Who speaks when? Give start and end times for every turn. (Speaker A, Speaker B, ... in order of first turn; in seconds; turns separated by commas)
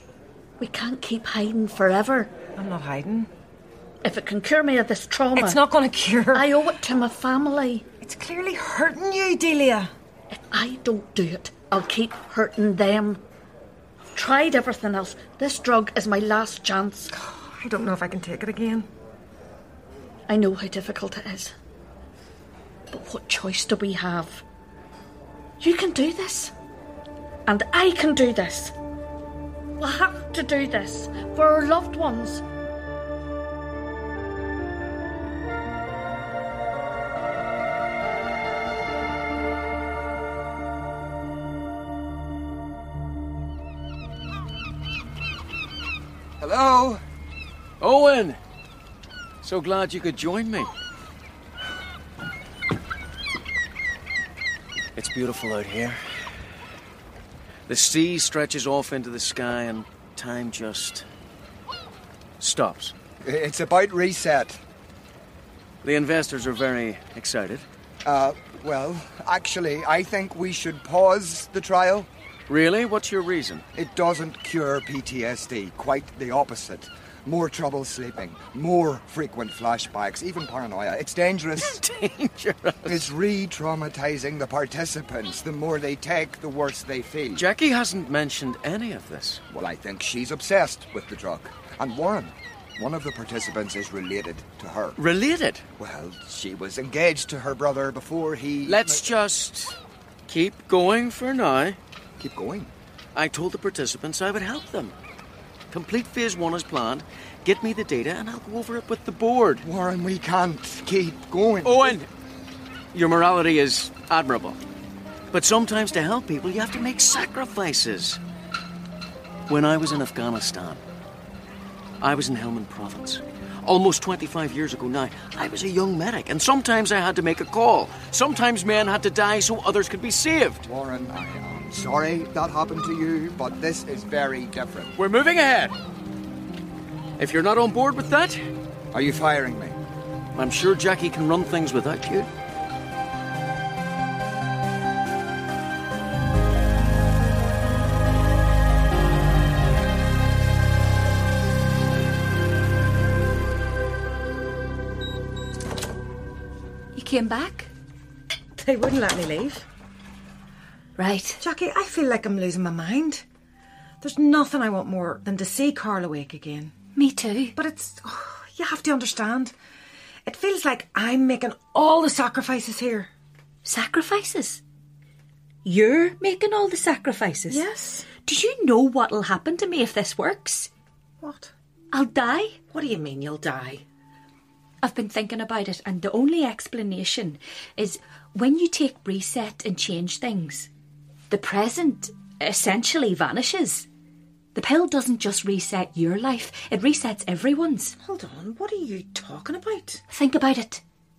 Speaker A: 0.6-2.4, Speaker B: 2.6-3.3, Speaker A: 4.0-5.6, Speaker B: 5.3-6.6, Speaker A: 6.3-7.8, Speaker B: 8.0-9.9, Speaker A: 10.3-13.2, Speaker A: 14.1-17.1, Speaker B: 17.1-18.9, Speaker A: 20.3-21.5, Speaker A: 22.9-24.4, Speaker A: 25.6-26.5, Speaker A: 27.4-28.7, Speaker A: 29.8-32.4, Speaker C: 46.4-47.0, Speaker D: 47.8-48.4, Speaker D: 49.4-50.7, Speaker D: 55.0-56.0, Speaker D: 57.7-61.0, Speaker D: 62.4-62.9, Speaker C: 63.2-64.6, Speaker D: 65.8-67.7, Speaker C: 68.0-72.1, Speaker D: 72.5-73.6, Speaker C: 73.7-81.8, Speaker D: 81.6-83.1, Speaker C: 82.8-87.5, Speaker D: 87.3-89.4, Speaker C: 89.5-95.0, Speaker D: 95.0-95.7, Speaker C: 95.8-99.1, Speaker D: 98.6-101.8, Speaker C: 102.2-102.7, Speaker D: 103.1-105.0, Speaker D: 105.7-109.6, Speaker C: 109.6-112.0, Speaker D: 111.6-112.1, Speaker D: 112.9-114.6, Speaker D: 115.3-118.2, Speaker D: 119.5-120.8, Speaker D: 122.0-130.7, Speaker C: 130.6-134.9, Speaker D: 134.9-135.8, Speaker D: 137.2-138.5, Speaker C: 138.9-139.8, Speaker D: 140.3-142.3, Speaker E: 156.9-157.7, Speaker B: 158.6-159.7, Speaker E: 161.0-161.4, Speaker B: 161.4-163.2, Speaker B: 164.0-166.7, Speaker E: 166.9-167.6, Speaker B: 167.6-169.5, Speaker B: 170.2-173.1, Speaker E: 173.6-174.6, Speaker E: 175.6-177.6, Speaker B: 177.5-178.1, Speaker E: 178.2-180.7, Speaker B: 181.2-181.5, Speaker E: 181.9-182.6, Speaker B: 182.7-183.8, Speaker E: 184.8-190.7, Speaker E: 191.3-193.9, Speaker E: 194.5-197.9, Speaker B: 198.0-200.0, Speaker E: 200.1-200.8